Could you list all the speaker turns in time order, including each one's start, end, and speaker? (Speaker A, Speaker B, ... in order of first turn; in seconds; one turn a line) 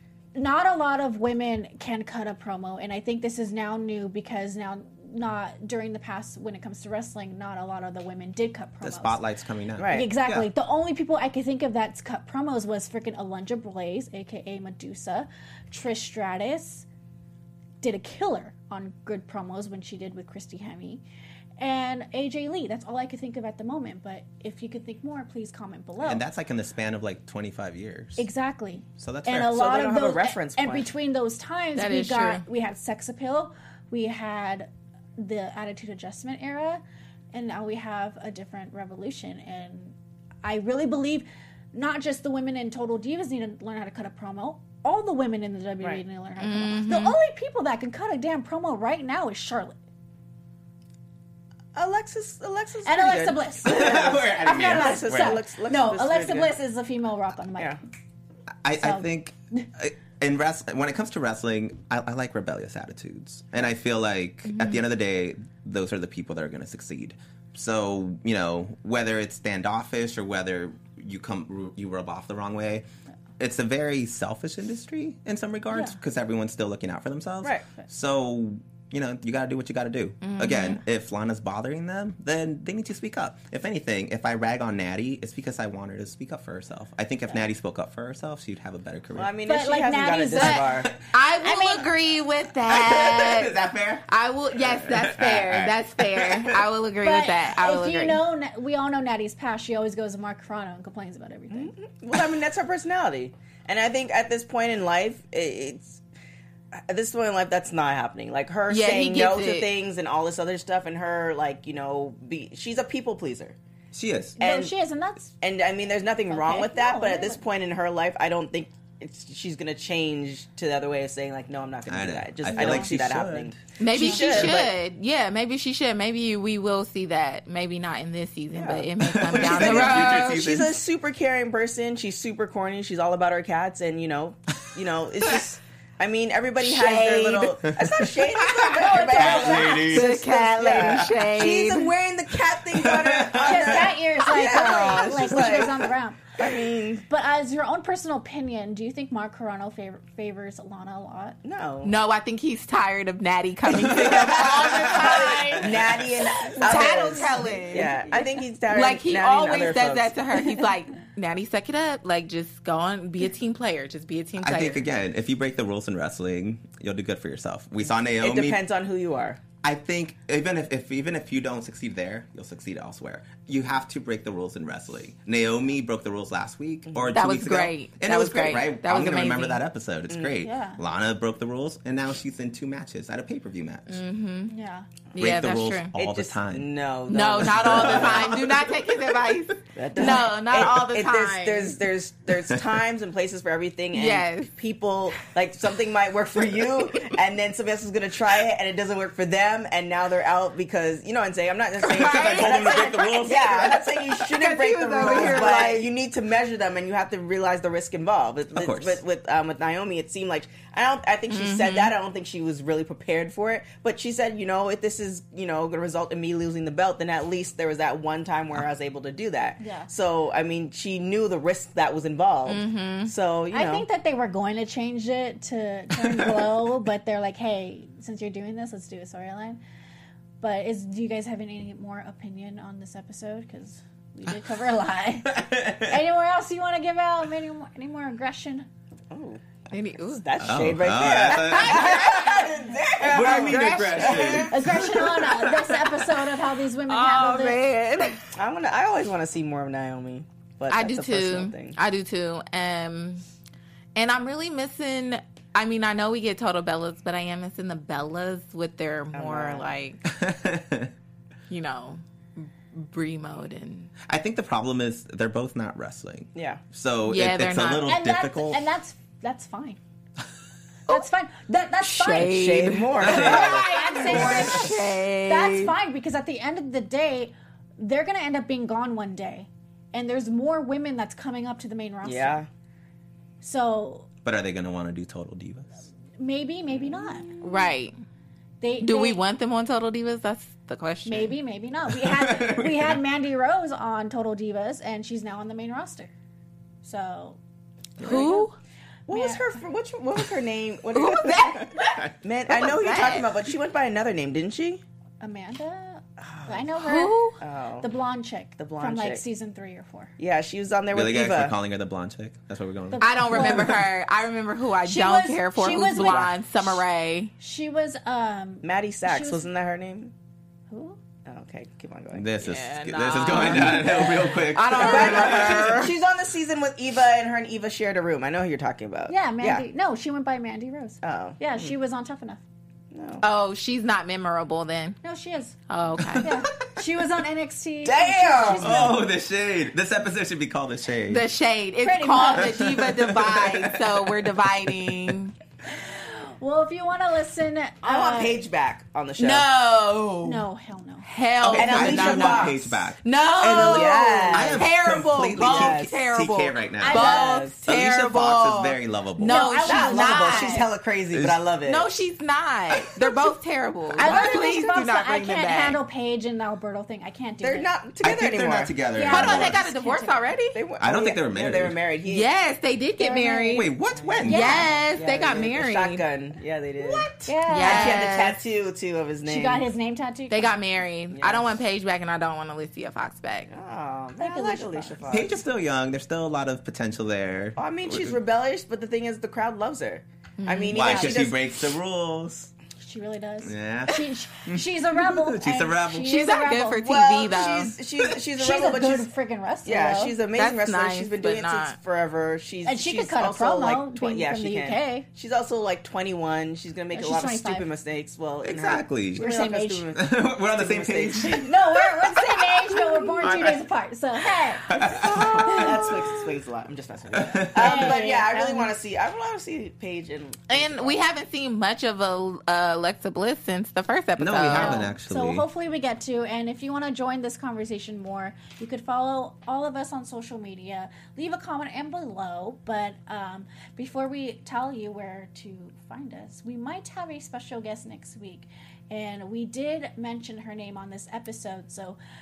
Speaker A: 0.3-9.3
Speaker B: 8.8-10.5
Speaker C: 9.8-10.1
Speaker A: 9.9-16.8
Speaker A: 17.8-21.0
Speaker A: 21.6-26.2
Speaker B: 26.0-28.3
Speaker A: 28.2-49.8
Speaker B: 29.0-29.6
Speaker C: 29.5-30.9
Speaker D: 31.8-32.4
Speaker D: 46.4-47.1
Speaker C: 51.7-56.5
Speaker A: 52.8-57.8
Speaker B: 53.6-55.4
Speaker B: 58.6-72.8
Speaker A: 58.8-59.6
Speaker D: 64.5-64.8
Speaker B: 73.4-89.4
Speaker D: 80.2-80.8
Speaker C: 89.1-90.9
Speaker A: 89.5-90.9
Speaker D: 90.3-93.5
Speaker A: 91.4-91.8
Speaker B: 92.7-96.6
Speaker D: 94.1-98.2
Speaker A: 97.0-101.7
Speaker C: 101.5-106.0
Speaker C: 106.7-113.5
Speaker D: 108.7-109.7
Speaker B: 113.9-114.4
Speaker A: 114.4-115.3
Speaker C: 114.4-114.7
Speaker C: 115.4-124.7
Speaker A: 116.3-117.4
Speaker B: 121.9-123.5
Speaker D: 122.6-122.8
Speaker D: 123.8-130.4
Speaker A: 123.9-124.5
Speaker C: 128.5-147.0
Speaker B: 129.0-130.8
Speaker D: 136.6-137.6
Speaker B: 137.7-140.1
Speaker A: 138.6-140.1
Speaker D: 139.8-141.9
Speaker B: 140.7-141.1
Speaker B: 142.7-143.9
Speaker A: 143.4-146.3
Speaker B: 144.6-145.8
Speaker A: 147.1-151.4
Speaker C: 151.4-151.9
Speaker D: 151.8-155.8
Speaker B: 153.8-156.1
Speaker A: 154.4-155.6
Speaker C: 155.0-160.2
Speaker D: 156.6-158.0
Speaker A: 156.7-157.3
Speaker D: 158.7-164.8
Speaker B: 164.4-168.6
Speaker C: 168.2-169.4
Speaker B: 169.6-184.0
Speaker C: 176.9-177.2
Speaker D: 177.1-179.6
Speaker C: 180.1-180.3
Speaker A: 180.4-180.8
Speaker D: 183.9-184.5
Speaker A: 184.5-184.9
Speaker D: 185.1-185.9
Speaker B: 185.1-186.7
Speaker C: 185.9-188.3
Speaker D: 187.1-191.8
Speaker B: 187.4-189.3
Speaker C: 189.7-223.8
Speaker D: 193.9-194.5
Speaker D: 201.8-203.3
Speaker B: 201.8-204.3
Speaker D: 204.3-205.9
Speaker B: 205.0-205.7
Speaker B: 208.5-209.0
Speaker D: 211.3-211.9
Speaker A: 219.6-219.9
Speaker D: 222.5-223.1
Speaker A: 223.5-229.6
Speaker B: 226.1-226.5
Speaker A: 230.4-238.7
Speaker B: 235.3-235.9
Speaker C: 239.1-239.4
Speaker D: 239.7-240.3
Speaker C: 240.1-244.8
Speaker B: 240.4-242.1
Speaker D: 241.3-242.4
Speaker B: 243.0-245.5
Speaker D: 243.1-244.4
Speaker A: 244.5-247.6
Speaker D: 246.9-248.2
Speaker C: 248.3-251.8
Speaker D: 250.7-253.2
Speaker D: 253.9-260.0
Speaker C: 259.1-259.7
Speaker B: 260.1-260.9
Speaker D: 261.5-263.9
Speaker B: 264.1-268.6
Speaker C: 266.3-266.6
Speaker D: 267.1-267.9
Speaker A: 267.9-269.8
Speaker A: 270.9-272.4
Speaker D: 271.8-275.7
Speaker C: 272.2-274.6
Speaker A: 273.0-282.4
Speaker B: 273.0-273.5
Speaker B: 274.1-274.5
Speaker C: 282.0-282.5
Speaker A: 283.4-284.1
Speaker B: 284.2-285.7
Speaker A: 286.2-287.3
Speaker D: 287.4-287.9
Speaker A: 288.6-289.2
Speaker D: 288.8-291.3
Speaker A: 291.0-296.1
Speaker B: 292.0-293.0
Speaker A: 296.8-297.4
Speaker A: 298.0-298.5
Speaker D: 298.0-298.6
Speaker C: 299.1-301.7
Speaker A: 299.1-299.4
Speaker D: 300.9-303.3
Speaker C: 302.2-304.8
Speaker A: 305.2-307.2
Speaker C: 306.2-306.7
Speaker D: 306.8-307.4
Speaker C: 307.4-307.9
Speaker A: 307.8-310.1
Speaker C: 308.6-309.2
Speaker C: 310.2-311.5
Speaker B: 310.9-313.8
Speaker A: 312.9-313.8
Speaker D: 313.0-317.3
Speaker A: 314.8-316.8
Speaker A: 317.4-319.4
Speaker C: 318.6-320.1
Speaker A: 320.7-321.0
Speaker C: 321.2-322.2
Speaker B: 322.1-325.7
Speaker D: 322.4-325.9
Speaker C: 324.8-329.6
Speaker A: 324.8-325.3
Speaker A: 329.1-332.4
Speaker C: 331.0-331.7
Speaker C: 332.9-333.2
Speaker D: 333.2-335.0
Speaker A: 335.0-335.6
Speaker D: 335.7-336.3
Speaker B: 336.0-336.8
Speaker A: 336.2-339.1
Speaker C: 337.8-338.9
Speaker B: 338.6-341.2
Speaker D: 341.1-345.3
Speaker A: 341.8-342.6
Speaker B: 342.4-344.2
Speaker A: 345.7-348.4
Speaker C: 347.8-349.5
Speaker D: 349.2-350.4
Speaker A: 350.2-351.1
Speaker D: 351.0-360.7
Speaker B: 351.4-357.1
Speaker C: 351.5-352.6
Speaker C: 353.5-354.7
Speaker C: 355.4-356.0
Speaker A: 356.8-357.5
Speaker C: 356.9-357.6
Speaker B: 357.6-359.6
Speaker A: 359.2-360.6
Speaker C: 359.6-361.9
Speaker B: 361.1-361.4
Speaker D: 361.7-365.8
Speaker A: 364.0-367.7
Speaker C: 364.0-364.3
Speaker C: 367.4-368.8
Speaker B: 368.0-369.6
Speaker A: 368.9-370.3
Speaker D: 369.1-370.6
Speaker C: 370.5-372.3
Speaker B: 370.8-371.8
Speaker D: 372.1-373.7
Speaker A: 373.0-373.6
Speaker B: 373.5-374.6
Speaker C: 373.9-379.7
Speaker D: 374.3-376.0
Speaker A: 374.3-374.6
Speaker D: 376.9-378.4
Speaker A: 377.2-378.1
Speaker A: 379.2-380.5
Speaker D: 380.3-383.5
Speaker C: 381.1-381.4
Speaker C: 383.5-385.4
Speaker A: 384.2-385.3
Speaker B: 385.1-388.2
Speaker C: 387.6-391.4
Speaker D: 390.4-391.0
Speaker B: 390.7-392.5
Speaker A: 390.8-391.1
Speaker A: 392.8-396.8
Speaker B: 393.4-396.2
Speaker D: 396.0-397.7
Speaker C: 396.8-399.1
Speaker A: 398.4-400.1
Speaker C: 399.6-411.5
Speaker D: 400.4-401.8
Speaker A: 402.6-405.0
Speaker A: 406.9-407.6
Speaker B: 408.4-409.3
Speaker A: 409.2-409.9
Speaker B: 409.9-411.5
Speaker A: 411.3-415.9
Speaker B: 413.1-413.6
Speaker B: 414.7-415.9
Speaker C: 414.9-421.0
Speaker B: 417.1-417.9
Speaker A: 417.6-418.7
Speaker D: 420.5-424.9
Speaker B: 424.2-425.4
Speaker A: 424.6-442.0